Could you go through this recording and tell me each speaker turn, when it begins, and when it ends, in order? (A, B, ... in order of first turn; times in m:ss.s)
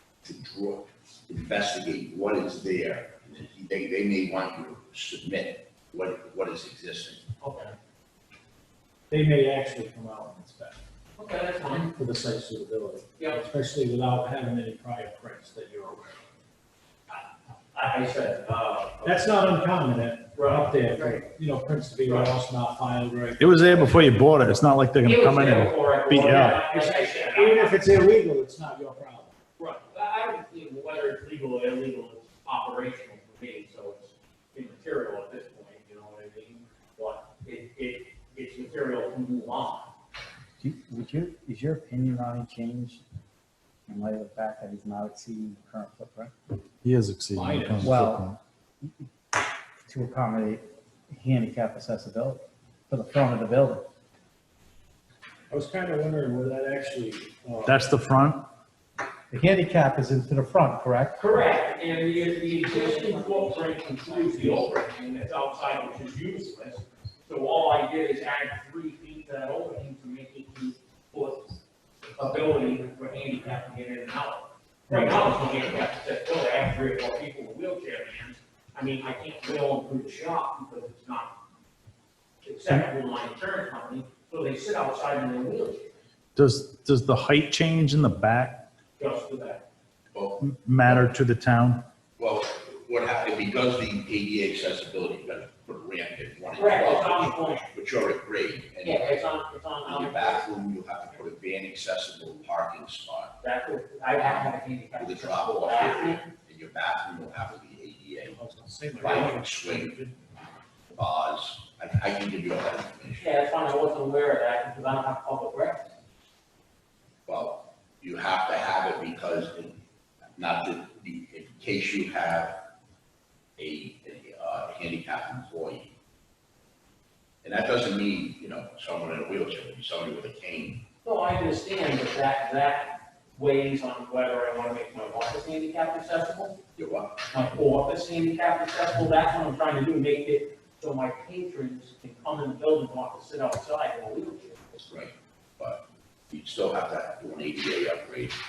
0:00.2-0:07.2 A
0:07.4-0:07.8 B
0:09.1-0:10.8 C
0:11.2-0:11.9 B
0:11.9-0:16.3 C
0:17.1-0:19.2 B
0:19.0-0:23.8 C
0:20.4-0:20.8 B
0:23.4-0:26.7 D
0:25.0-0:27.8 B
0:26.6-0:29.3 C
0:29.6-0:39.9 B
0:40.6-0:43.0 E
0:43.9-0:46.3 E
0:46.8-0:48.4 D
0:47.3-0:48.0 C
0:47.8-0:49.0 E
0:49.9-0:53.9 E
0:55.5-0:57.8 C
0:57.7-0:58.4 D
0:59.3-1:01.2 E
1:01.2-1:11.6 B
1:12.2-1:21.4 B
1:22.4-1:25.9 B
1:26.4-1:28.6 D
1:29.0-1:29.6 B
1:30.1-1:30.4 A
1:30.4-1:31.9 D
1:32.2-1:39.1 A
1:36.6-1:37.7 B
1:38.8-1:40.5 B
1:39.8-1:43.3 A
1:43.4-1:46.2 B
1:45.0-1:48.4 A
1:48.3-1:50.1 C
1:49.0-1:50.1 A
1:51.0-1:53.3 A
1:53.2-1:55.9 B
1:57.3-1:59.8 A
2:00.4-2:02.6 A
2:03.6-2:05.9 A
2:07.4-2:10.8 A
2:11.0-2:16.6 B
2:16.8-2:17.1 A
2:17.3-2:24.6 B
2:24.8-2:28.4 A